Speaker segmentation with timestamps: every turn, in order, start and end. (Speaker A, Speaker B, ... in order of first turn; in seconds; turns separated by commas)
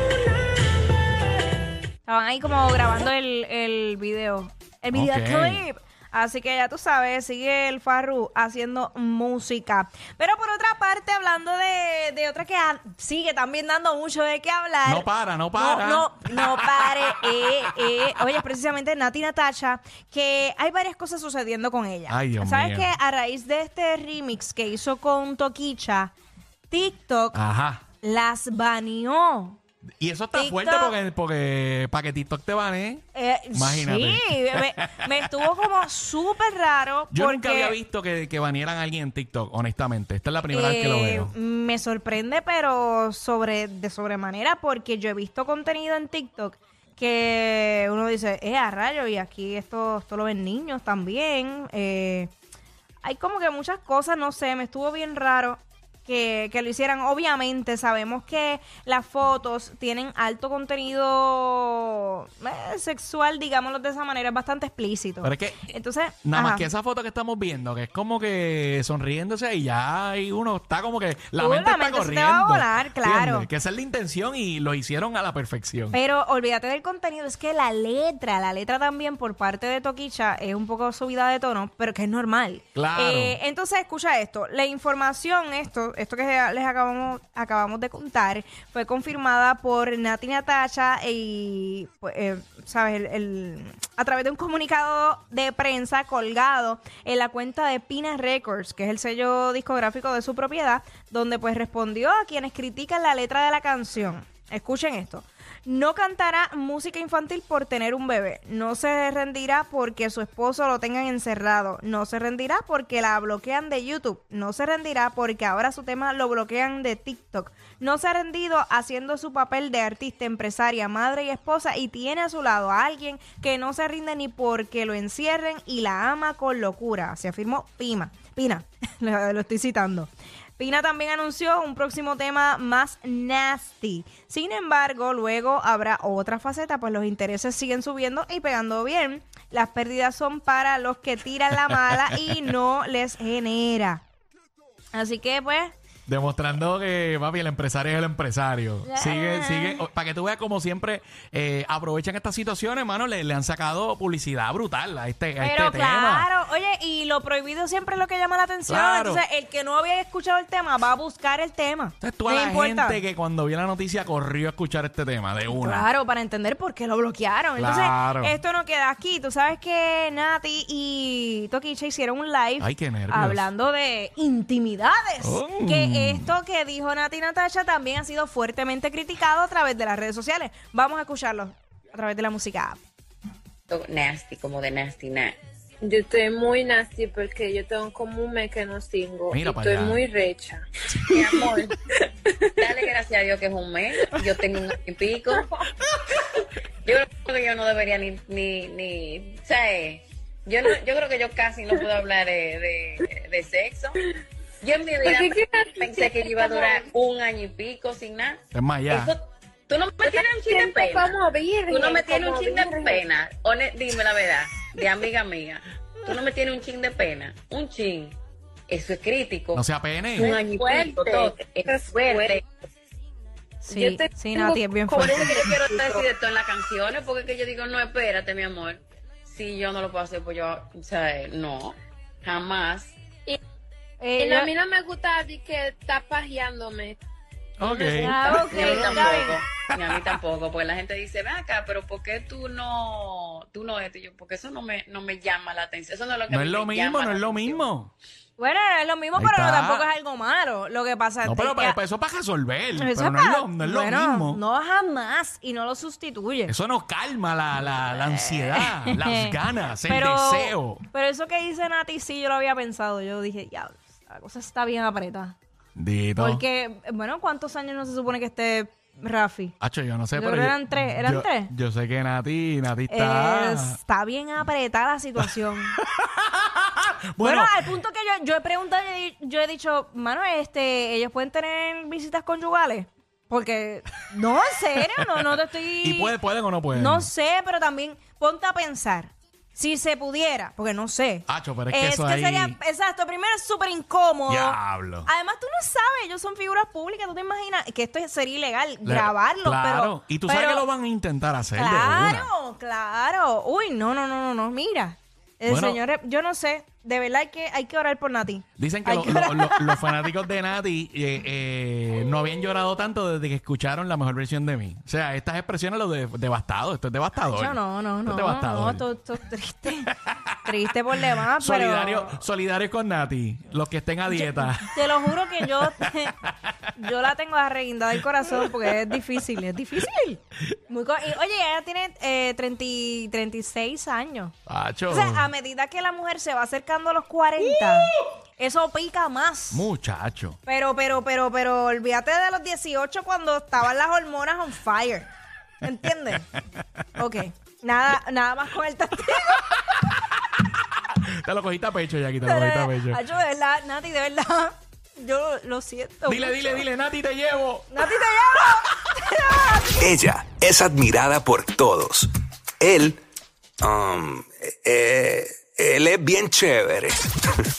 Speaker A: 2.0-26.1, Speaker B: 4.9-5.7, Speaker B: 14.8-16.6, Speaker B: 22.1-22.9, Speaker A: 26.7-27.4, Speaker B: 27.3-27.8, Speaker A: 28.0-29.6, Speaker B: 30.0-35.5, Speaker A: 30.3-31.0, Speaker A: 33.1-37.8, Speaker B: 37.1-41.3, Speaker A: 40.5-52.3, Speaker A: 53.0-66.7, Speaker B: 65.2-76.0, Speaker A: 71.4-73.5, Speaker A: 75.9-144.0, Speaker B: 82.7-83.4, Speaker A: 144.9-145.7, Speaker B: 146.1-156.3, Speaker A: 148.8-149.8, Speaker A: 155.4-163.0, Speaker B: 158.7-159.2, Speaker B: 162.0-165.9, Speaker A: 165.5-182.8, Speaker B: 167.6-168.3, Speaker B: 172.6-173.4, Speaker B: 175.2-176.3, Speaker C: 183.7-185.4, Speaker D: 185.8-190.6, Speaker B: 189.3-190.0, Speaker C: 191.1-191.8, Speaker C: 192.4-195.4, Speaker C: 196.8-204.0, Speaker C: 204.6-211.1, Speaker D: 205.0-206.9, Speaker B: 208.5-209.1, Speaker D: 210.0-213.1, Speaker C: 211.7-218.1, Speaker C: 218.7-222.4, Speaker B: 219.5-220.4, Speaker D: 220.2-222.4, Speaker A: 223.7-225.4, Speaker D: 223.7-226.1, Speaker C: 225.0-232.9, Speaker A: 234.0-234.5, Speaker D: 234.2-237.0, Speaker B: 237.6-238.3, Speaker D: 237.6-239.2, Speaker A: 237.9-239.4, Speaker C: 238.3-247.6, Speaker B: 239.7-240.1, Speaker B: 246.3-247.9, Speaker A: 248.4-251.8, Speaker B: 249.2-249.8, Speaker B: 251.2-254.4, Speaker A: 252.8-256.5, Speaker B: 256.5-260.8, Speaker A: 257.8-265.3, Speaker B: 265.8-266.4, Speaker A: 266.2-269.5, Speaker B: 269.6-273.8, Speaker A: 270.1-271.5, Speaker A: 272.9-275.8, Speaker B: 275.7-277.5, Speaker A: 277.2-286.1, Speaker B: 285.8-287.1, Speaker A: 286.7-300.6, Speaker B: 291.3-292.6, Speaker B: 294.3-295.1, Speaker B: 298.9-302.3, Speaker A: 301.5-310.1, Speaker B: 305.4-305.8, Speaker B: 308.6-318.8, Speaker A: 317.3-322.2, Speaker B: 320.0-320.4, Speaker B: 321.4-326.7, Speaker A: 324.1-326.1, Speaker A: 326.8-334.3, Speaker B: 334.5-335.3, Speaker A: 334.9-339.6, Speaker B: 337.4-338.0, Speaker B: 339.5-340.4, Speaker A: 340.4-345.1, Speaker A: 345.6-346.3, Speaker A: 346.9-349.5, Speaker B: 351.0-353.0, Speaker A: 352.2-356.6, Speaker B: 356.1-357.7, Speaker A: 357.7-359.7, Speaker E: 359.8-363.0, Speaker E: 363.6-367.0